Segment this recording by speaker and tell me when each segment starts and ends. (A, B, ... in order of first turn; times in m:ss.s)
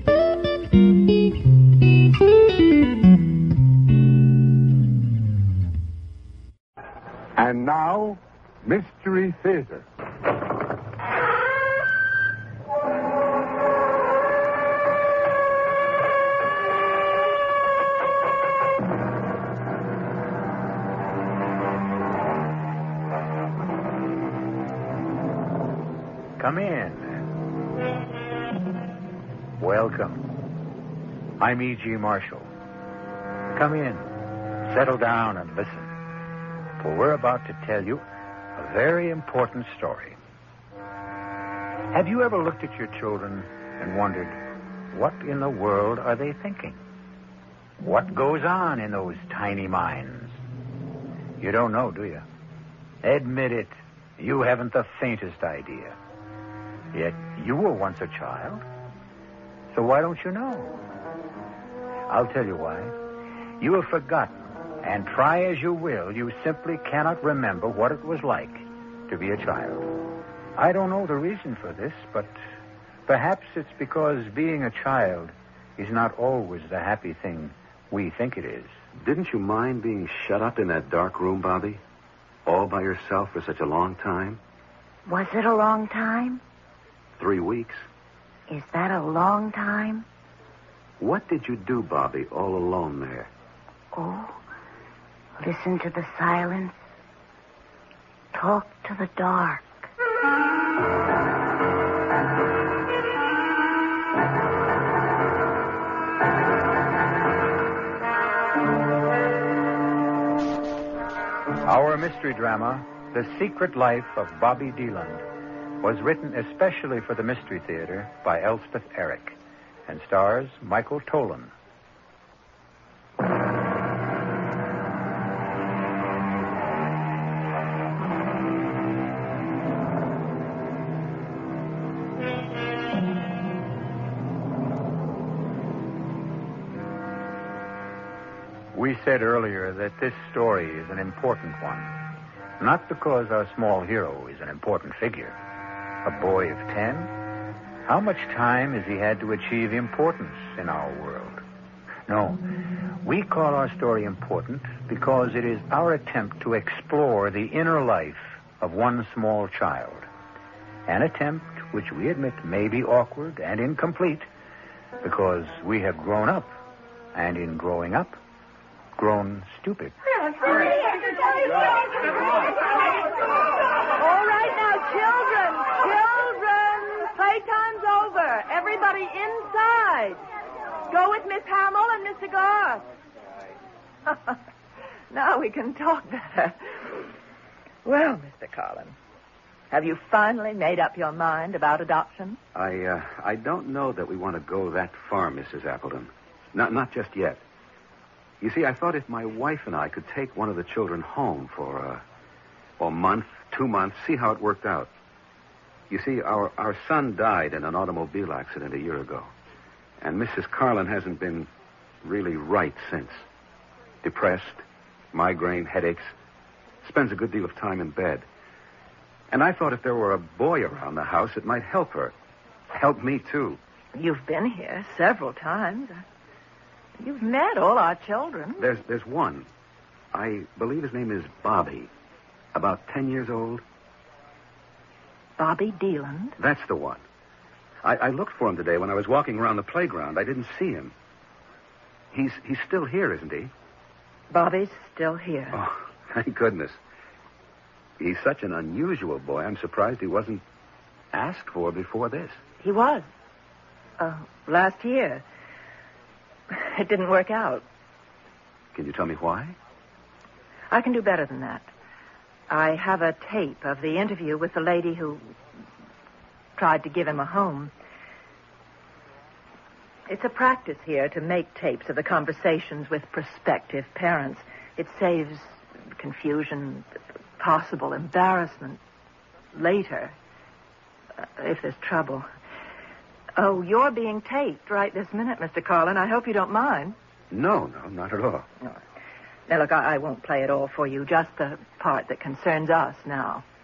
0:07.4-0:09.8 A
0:26.4-0:27.2 B
0:29.6-0:30.3 B
0:31.4-0:32.5 B
0:33.5-0:35.9 B
0:36.8-0:40.2 B
0:41.9-0:44.4 B
0:44.9-0:46.8 B
0:47.8-0:50.4 B
0:51.4-0:52.3 B
0:53.0-0:56.0 B
0:56.9-0:58.6 B
0:59.7-1:00.8 B
1:02.1-1:03.0 B
1:03.6-1:09.9 B
1:10.6-1:12.4 B
1:13.1-1:18.7 B
1:19.0-1:21.8 C
1:22.4-1:24.4 C
1:25.1-1:26.4 D
1:27.2-1:27.8 C
1:28.5-1:30.1 D
1:31.0-1:33.3 C
1:33.9-1:34.4 D
1:35.4-1:36.8 D
1:38.3-1:39.8 D
1:51.6-1:55.3 B
1:55.8-1:59.4 B
1:59.9-2:01.5 B
2:18.7-2:21.9 B
2:22.6-2:25.4 B
2:26.0-2:27.1 B
2:27.8-2:31.4 B
2:32.1-2:32.5 B
2:33.0-2:40.1 B
2:40.9-2:44.3 B
2:45.0-2:46.5 B
2:47.1-2:48.2 B
2:49.0-2:49.9 B
2:50.3-2:51.6 E
2:54.0-3:00.2 E
3:00.9-3:02.8 E
3:04.1-3:04.4 E
3:05.1-3:06.9 E
3:07.8-3:09.0 E
3:09.7-3:12.4 E
3:12.5-3:17.4 C
3:18.4-3:22.0 C
3:22.8-3:24.9 C
3:25.9-3:29.3 C
3:30.0-3:31.5 C
3:32.0-3:33.2 C
3:34.0-3:34.6 C
3:35.1-3:36.1 C
3:36.8-3:38.2 C
3:39.3-3:42.1 C
3:42.7-3:43.6 C
3:43.9-3:46.0 E
3:47.0-3:48.6 E
3:48.6-3:49.5 C
3:50.1-3:51.9 C
3:52.5-3:53.6 C
3:55.4-3:56.4 E
3:56.4-3:57.0 C
3:57.8-4:00.9 C
4:02.1-4:03.5 C
4:04.3-4:05.6 E
4:05.5-4:06.8 C
4:08.0-4:10.4 C
4:11.1-4:12.4 C
4:12.6-4:13.1 E
4:14.0-4:15.2 E
4:16.5-4:17.6 E
4:18.7-4:19.6 C
4:20.7-4:21.7 E
4:22.5-4:25.3 E
4:26.6-4:27.7 E
4:30.1-4:36.9 E
4:37.4-4:38.8 E
4:39.5-4:40.1 E
4:41.2-4:42.3 E
4:43.4-4:47.0 E
4:47.3-4:48.5 C
4:49.5-4:53.4 E